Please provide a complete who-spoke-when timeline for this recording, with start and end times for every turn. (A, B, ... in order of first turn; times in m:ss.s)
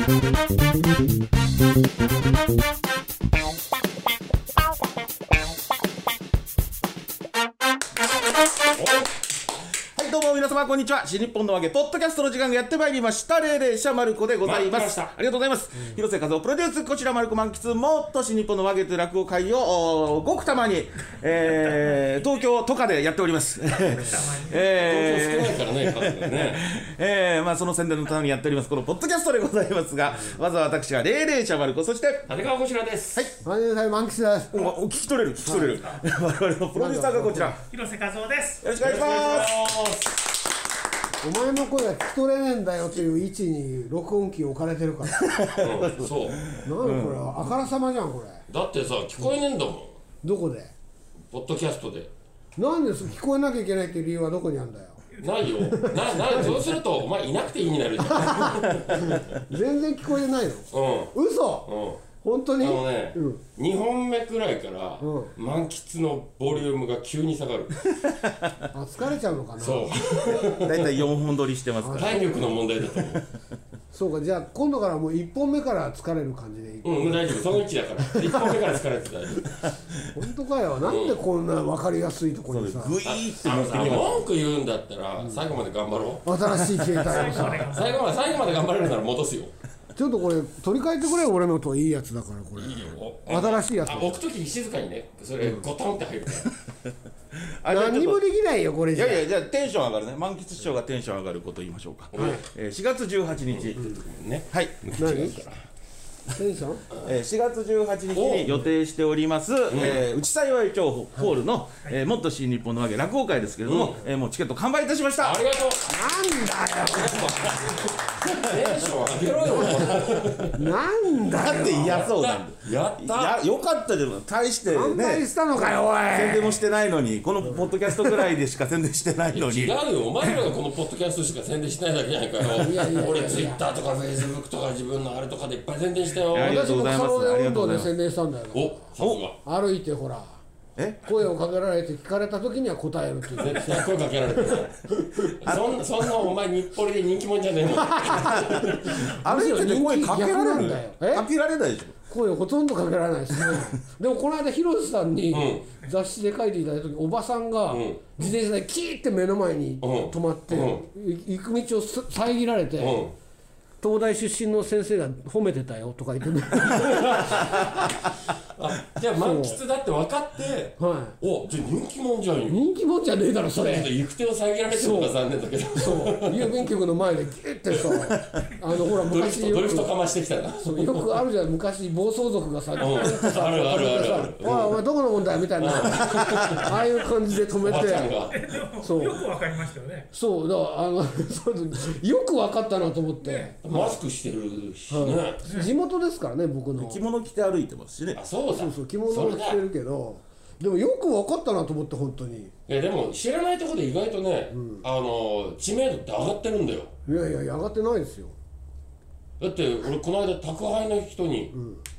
0:10.0-0:32.3 A
0:14.4-0:15.1 B
0:21.1-0:22.4 C
0:23.8-0:24.8 C
0:24.7-0:26.7 B
0:32.3-0:33.2 B
0:33.4-0:34.8 D
0:34.5-0:37.6 A
0:35.4-0:35.8 D
0:35.6-0:36.0 C
0:36.8-0:37.6 D
0:37.7-0:39.5 C
0:38.6-0:39.6 A
0:38.8-0:40.2 B
0:41.2-0:45.4 D
0:45.2-0:47.4 A
0:45.6-0:46.5 B
0:46.6-0:48.4 D
0:48.5-0:50.0 B
0:50.2-0:50.7 D
0:51.3-0:52.1 B
0:52.6-0:55.0 D
0:55.1-0:55.5 C
0:55.2-0:59.2 B
0:55.6-0:56.8 D
0:58.1-1:03.4 D
1:00.7-1:02.0 B
1:02.6-1:07.8 B
1:05.0-1:05.3 D
1:08.1-1:08.5 A
1:08.7-1:10.0 D
1:09.6-1:10.9 B
1:10.2-1:12.3 A
1:11.8-1:12.6 D
1:12.0-1:13.2 B
1:13.9-1:17.4 D
1:16.8-1:19.6 B
1:18.2-1:18.6 D
1:20.1-1:23.0 D
1:20.8-1:21.2 B
1:22.5-1:24.3 A
1:23.1-1:26.4 B
1:26.2-1:27.7 D
1:27.0-1:28.4 C
1:27.2-1:29.5 B
1:30.0-1:34.2 D
1:32.6-1:36.5 B
1:37.3-1:38.2 A
1:37.7-1:39.3 D
1:38.9-1:43.9 A
1:42.1-1:42.4 B
1:42.2-1:42.4 D
1:43.5-1:45.6 B
1:44.5-1:45.3 A
1:45.0-1:45.4 D
1:46.3-1:46.8 D
1:47.0-1:55.4 A
1:48.1-1:48.5 B
1:49.7-1:50.0 B
1:53.6-1:54.0 B
1:55.2-1:56.2 B
1:55.9-1:57.9 D
1:56.8-2:00.7 B
1:59.4-2:02.1 D
2:01.3-2:10.4 A
2:01.3-2:03.4 B
2:04.7-2:06.6 D
2:07.4-2:08.2 D
2:09.3-2:16.7 B
2:12.5-2:13.6 D
2:16.3-2:17.9 A
2:16.3-2:18.8 D
2:18.5-2:19.4 B
2:19.0-2:19.2 A
2:19.4-2:20.4 D
2:20.8-2:21.0 A
2:21.0-2:23.9 D
2:23.3-2:29.1 B
2:25.5-2:25.8 A
2:27.7-2:31.3 D
2:28.2-2:32.0 A
2:32.1-2:43.1 D
2:35.3-2:35.7 B
2:37.7-2:38.0 B
2:39.8-2:40.9 B
2:42.8-2:43.1 B
2:43.8-2:48.0 D
2:46.7-2:48.0 B
2:48.6-2:52.6 B
2:49.2-2:49.6 D
2:50.8-2:51.2 D
2:52.5-2:53.9 D
2:53.5-2:56.6 B
2:54.7-2:55.2 D
2:55.8-2:59.9 D
2:58.7-3:01.2 B
3:00.6-3:08.1 D
3:02.8-3:04.8 B
3:05.6-3:08.4 B
3:08.3-3:10.1 C
3:08.8-3:09.2 D
3:10.1-3:14.0 D
3:13.2-3:13.5 C
3:13.6-3:15.4 B
3:14.9-3:17.0 D
3:15.4-3:15.7 C
3:16.8-3:18.2 A
3:18.1-3:19.6 B
3:18.5-3:22.5 D
3:22.7-3:26.9 B
3:24.5-3:24.8 D
3:27.1-3:28.4 D
3:29.4-3:31.6 B
3:31.5-3:31.8 D